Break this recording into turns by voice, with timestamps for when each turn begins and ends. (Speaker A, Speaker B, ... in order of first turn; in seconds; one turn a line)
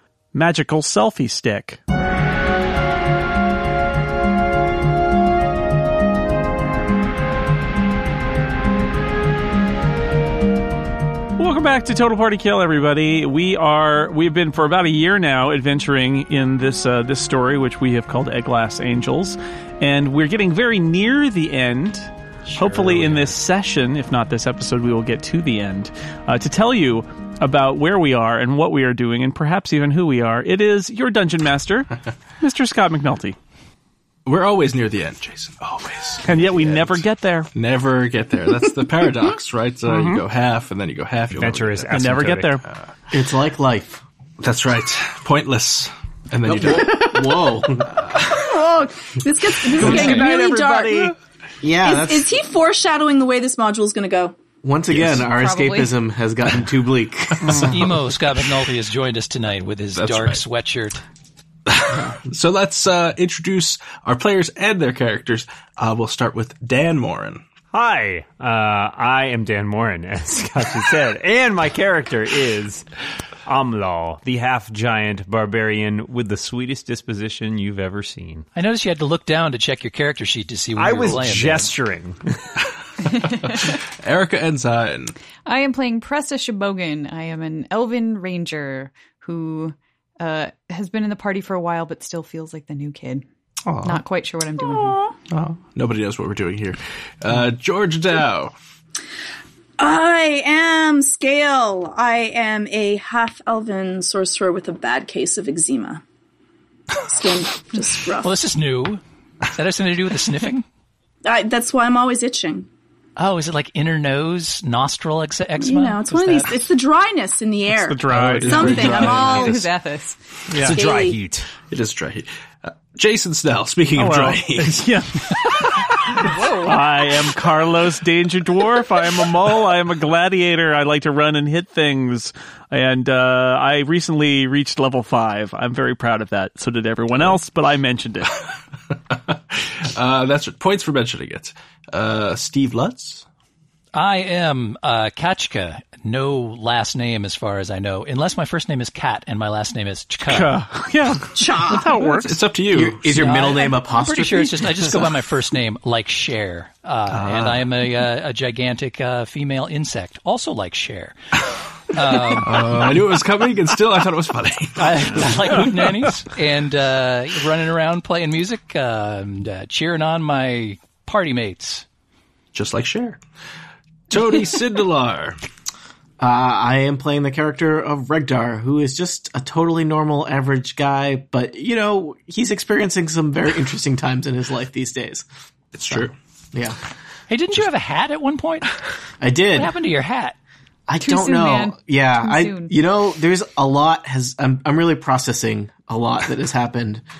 Speaker A: 0.3-1.8
Speaker A: 11.4-33.4
Speaker B: 22.5-23.3
Speaker B: 34.2-42.0
Speaker A: 36.2-37.5
Speaker A: 39.9-40.2
Speaker C: 41.4-42.6
Speaker A: 41.9-42.6
Speaker D: 43.1-44.0
Speaker B: 44.4-48.2
Speaker D: 46.4-48.0
Speaker E: 48.1-51.1
Speaker A: 49.8-51.1
Speaker B: 49.8-50.1
Speaker D: 51.6-52.3
Speaker E: 51.8-54.4
Speaker D: 54.6-57.9
Speaker B: 54.9-55.3
Speaker F: 55.3-55.9
Speaker B: 57.4-57.9
Speaker G: 57.6-61.0
Speaker B: 59.9-60.4
Speaker B: 61.7-67.4
Speaker C: 67.7-72.8
Speaker C: 73.5-78.4
Speaker G: 78.5-81.7
Speaker C: 80.8-82.2
Speaker B: 83.4-85.1
Speaker F: 85.4-93.2
Speaker B: 93.7-94.0
Speaker F: 93.8-95.0
Speaker E: 94.6-95.1
Speaker B: 95.3-98.5
Speaker E: 99.8-106.0
Speaker E: 107.0-108.4
Speaker G: 108.2-109.0
Speaker G: 109.5-110.6
Speaker E: 111.2-112.7
Speaker G: 113.2-116.7
Speaker E: 115.6-119.7
Speaker A: 117.8-119.1
Speaker B: 118.1-119.5
Speaker F: 118.8-120.2
Speaker C: 120.5-121.5
Speaker E: 120.6-121.2
Speaker B: 121.7-125.0
Speaker A: 123.9-138.4
Speaker B: 139.1-143.2
Speaker G: 143.9-150.6
Speaker A: 150.2-152.4
Speaker E: 151.3-151.9
Speaker B: 152.0-153.3
Speaker D: 152.7-155.0
Speaker G: 153.1-161.2
Speaker B: 157.1-157.7
Speaker G: 161.9-162.9
Speaker B: 162.2-165.6
Speaker G: 164.8-171.8
Speaker B: 172.5-173.2
Speaker B: 174.1-175.4
Speaker D: 176.2-185.2
Speaker B: 185.7-186.1
Speaker G: 187.3-188.7
Speaker D: 189.2-189.8
Speaker G: 189.5-190.3
Speaker D: 190.9-197.0
Speaker F: 191.0-192.7